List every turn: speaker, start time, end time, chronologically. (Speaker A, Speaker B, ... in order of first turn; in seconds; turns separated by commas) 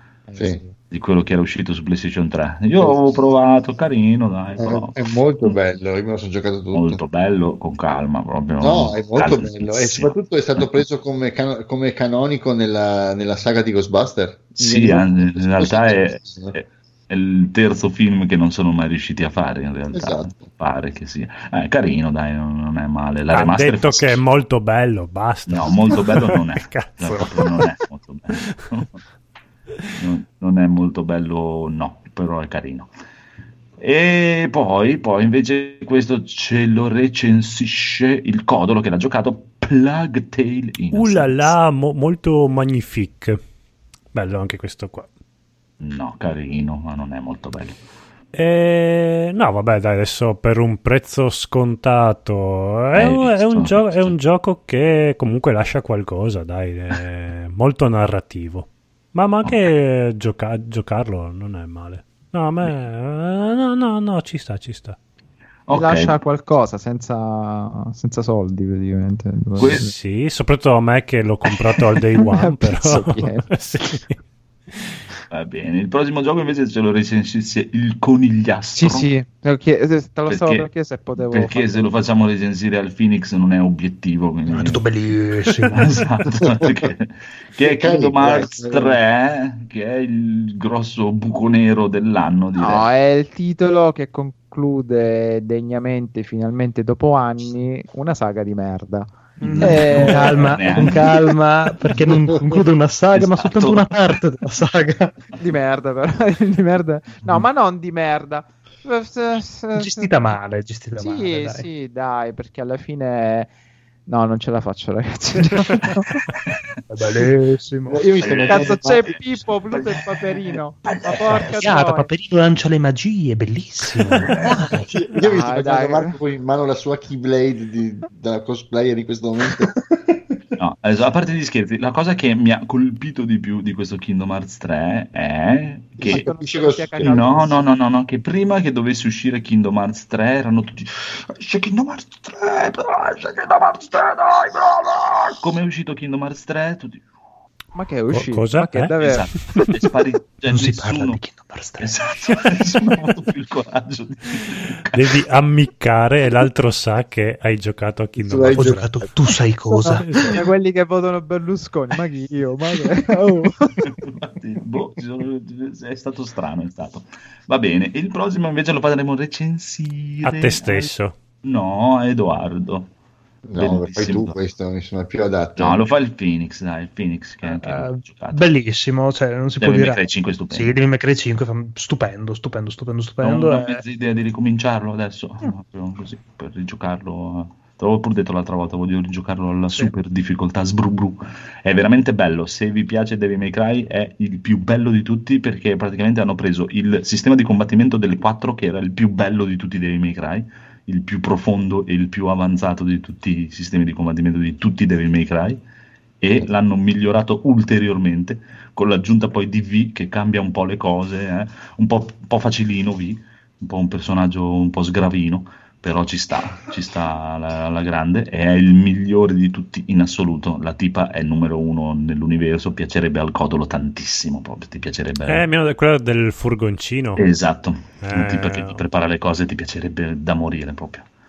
Speaker A: 0.3-0.7, Speaker B: 0.9-5.5, Speaker C: 4.6-7.0, Speaker B: 6.7-10.6, Speaker C: 8.6-16.5, Speaker B: 14.5-24.2, Speaker C: 19.9-20.3, Speaker D: 23.3-27.6, Speaker B: 25.5-29.0, Speaker B: 29.9-32.9, Speaker B: 33.8-41.5, Speaker D: 40.9-43.4, Speaker D: 44.1-45.1, Speaker B: 45.8-47.8, Speaker D: 48.3-65.0, Speaker B: 52.9-54.1, Speaker B: 65.7-66.1, Speaker A: 65.7-69.9, Speaker B: 69.6-69.9, Speaker D: 69.6-74.2, Speaker A: 72.2-73.5, Speaker D: 74.7-75.0, Speaker B: 75.3-79.1, Speaker A: 78.8-81.9, Speaker B: 80.3-84.8, Speaker E: 84.5-86.1, Speaker B: 85.7-92.9, Speaker C: 87.6-89.0, Speaker A: 92.6-101.2, Speaker E: 99.4-105.2, Speaker B: 99.5-101.3, Speaker B: 103.1-103.9, Speaker A: 105.4-110.1, Speaker E: 109.8-111.7, Speaker A: 111.0-113.5, Speaker A: 114.1-116.2, Speaker E: 115.5-116.0, Speaker E: 116.9-118.0, Speaker C: 117.9-119.4, Speaker B: 118.2-121.6, Speaker A: 118.5-122.1, Speaker E: 121.6-124.8, Speaker B: 124.1-124.6, Speaker C: 124.6-129.8, Speaker A: 125.1-126.1, Speaker B: 130.6-136.3, Speaker C: 136.0-137.2, Speaker A: 136.0-137.6, Speaker B: 137.0-147.1, Speaker A: 147.7-149.7, Speaker D: 148.1-148.9, Speaker B: 149.0-151.2, Speaker E: 150.5-153.1, Speaker B: 151.8-155.1, Speaker D: 154.9-158.9, Speaker C: 158.2-160.4, Speaker E: 158.6-160.3, Speaker D: 160.0-160.4, Speaker A: 160.3-163.9, Speaker B: 163.8-170.9, Speaker D: 170.2-171.2, Speaker B: 171.4-172.9, Speaker C: 173.4-175.8, Speaker B: 173.6-174.4, Speaker B: 175.6-178.5, Speaker E: 177.4-183.8, Speaker B: 179.6-180.7, Speaker B: 183.2-205.6, Speaker B: 206.2-225.4, Speaker D: 225.3-227.2, Speaker B: 227.2-231.1, Speaker D: 228.0-228.8